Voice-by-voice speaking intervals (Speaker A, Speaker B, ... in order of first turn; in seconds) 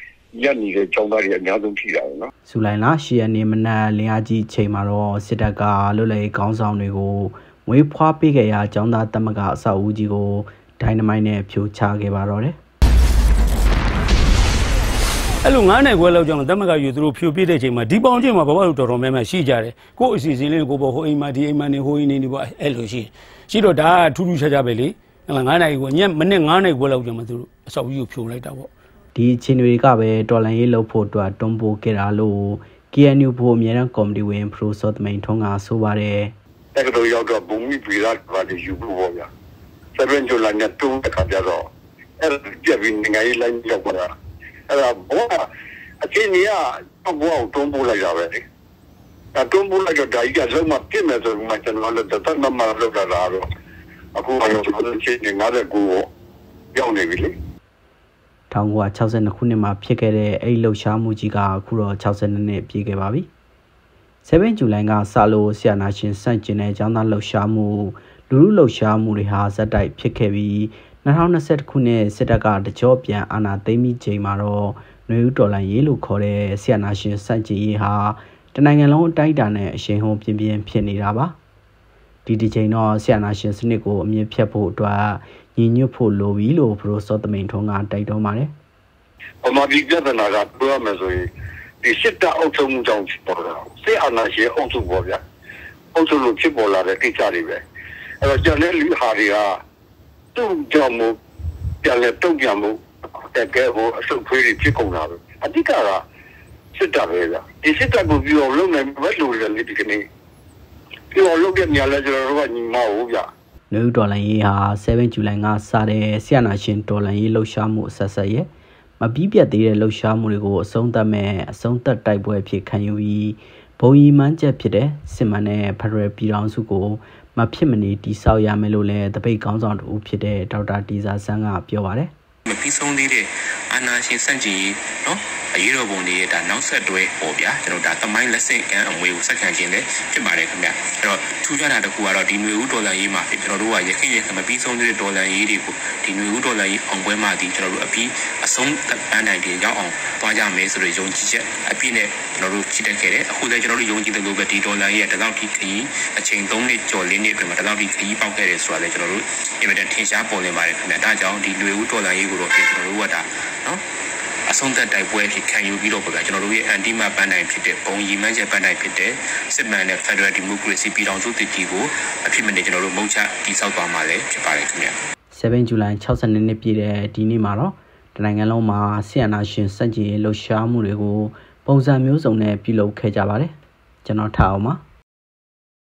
Speaker A: 0.3-2.3, 36.8-39.3, 40.0-41.7, 42.2-44.1, 44.7-45.4, 46.0-48.4, 49.4-53.5, 54.1-56.1, 56.7-57.3, 89.4-91.2, 91.8-95.2, 96.0-97.6, 98.2-99.5, 100.3-101.2, 101.8-106.0, 106.8-110.0, 111.1-113.3
Speaker B: 2.5-12.6, 29.1-36.3, 58.5-63.3, 64.2-81.4, 82.3-88.5, 113.7-118.5, 119.0-132.1, 175.3-183.5, 184.1-184.8
Speaker C: 15.4-28.7
Speaker D: 132.5-163.8, 164.5-174.9